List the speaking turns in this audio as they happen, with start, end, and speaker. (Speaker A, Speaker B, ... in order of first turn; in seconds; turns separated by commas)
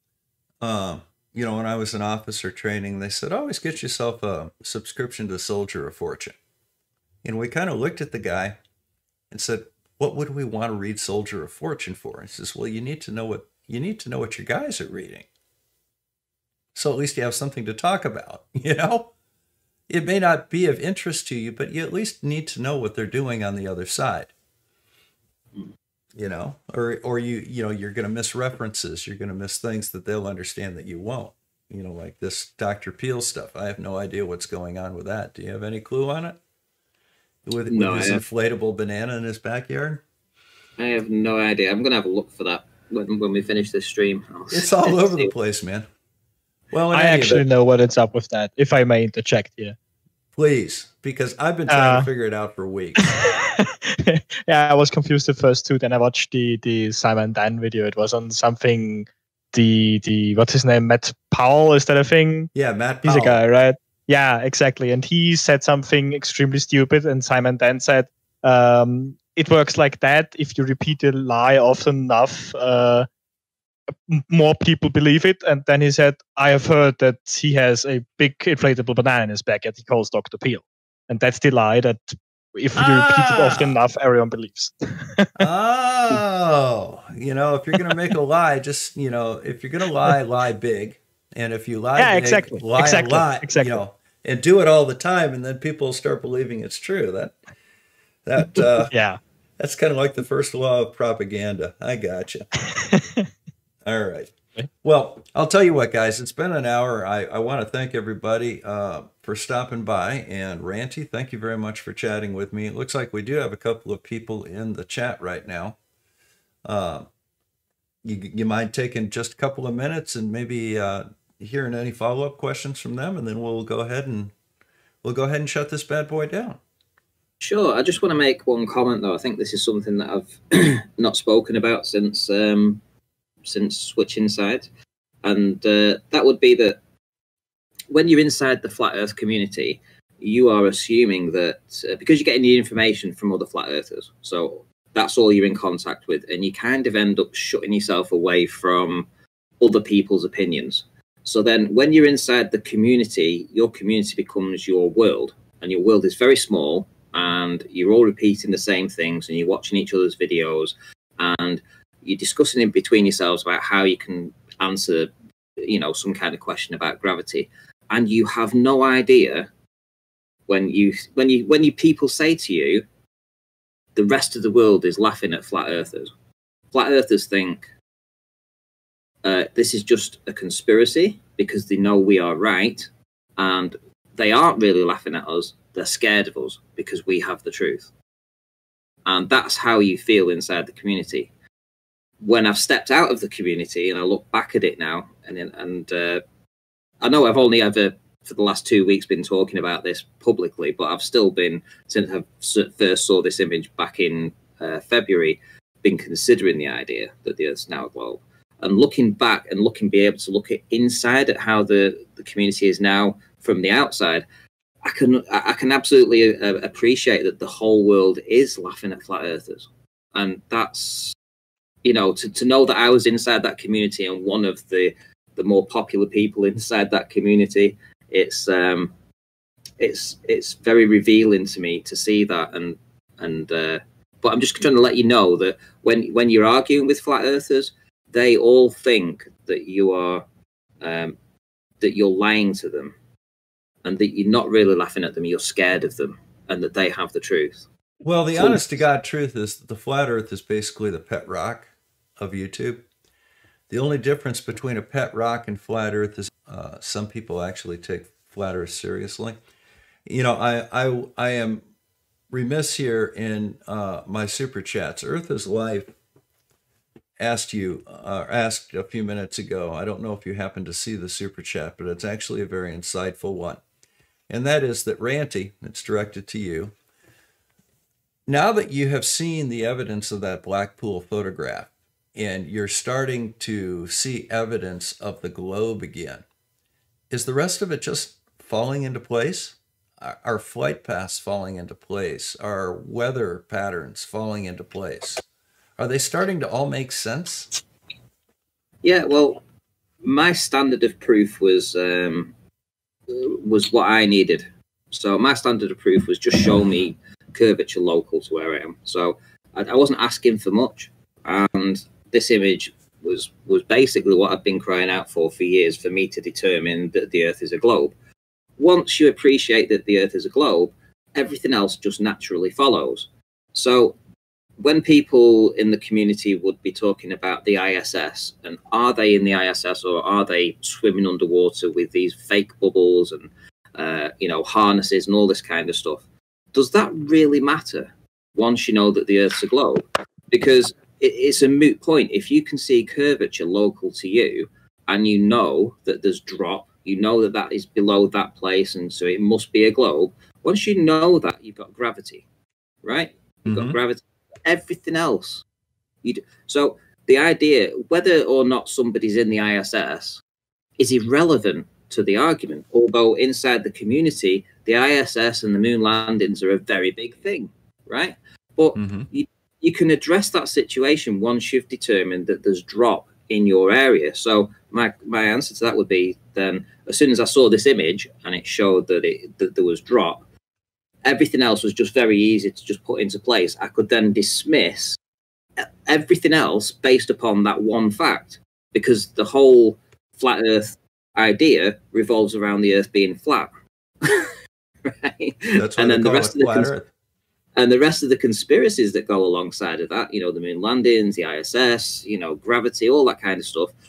Speaker A: 0.6-6.4, Speaker A: 7.2-8.6, Speaker A: 9.3-15.3, Speaker A: 16.7-19.1, Speaker A: 19.9-24.3, Speaker A: 26.1-36.4, Speaker A: 37.4-40.0, Speaker B: 37.7-38.2, Speaker B: 40.8-45.3, Speaker A: 44.5-45.9, Speaker A: 46.7-47.4, Speaker C: 46.9-49.8, Speaker A: 50.3-53.0, Speaker C: 51.7-52.1, Speaker C: 53.0-62.5, Speaker A: 62.5-63.4, Speaker C: 63.0-73.1, Speaker C: 74.1-85.4, Speaker A: 82.7-83.7, Speaker A: 85.4-97.4, Speaker C: 92.0-93.8, Speaker A: 98.2-98.9, Speaker C: 98.9-99.2, Speaker A: 99.6-102.4, Speaker C: 102.8-103.2, Speaker A: 103.8-115.8, Speaker A: 116.7-117.1, Speaker A: 118.0-124.3, Speaker A: 125.0-126.6, Speaker B: 127.4-132.8, Speaker B: 133.4-134.7, Speaker B: 135.2-136.8, Speaker B: 137.9-149.1, Speaker B: 149.6-169.5, Speaker B: 170.5-172.8, Speaker B: 173.9-176.1, Speaker B: 176.7-177.7, Speaker B: 179.2-187.9, Speaker B: 189.1-191.3, Speaker B: 192.2-196.2, Speaker B: 197.0-214.2, Speaker B: 214.8-221.2, Speaker B: 221.8-228.9, Speaker B: 229.8-240.2, Speaker B: 240.8-241.1, Speaker B: 241.8-242.9, Speaker B: 243.8-247.7, Speaker A: 248.0-252.8, Speaker B: 248.3-248.6, Speaker A: 253.7-259.4, Speaker A: 260.1-261.6, Speaker A: 262.3-265.9, Speaker A: 267.2-273.6, Speaker A: 274.3-276.7, Speaker A: 278.3-286.2, Speaker A: 287.1-295.2, Speaker A: 295.8-297.5, Speaker B: 298.8-299.4, Speaker B: 300.0-302.3, Speaker B: 303.1-317.9, Speaker B: 318.6-323.9, Speaker B: 324.6-352.2, Speaker B: 352.8-355.4, Speaker A: 353.4-353.8, Speaker B: 356.0-360.2, Speaker B: 360.8-380.2, Speaker A: 368.7-369.1, Speaker B: 381.0-385.0, Speaker B: 385.6-393.5, Speaker B: 394.0-396.8, Speaker A: 395.5-396.9, Speaker B: 397.6-403.7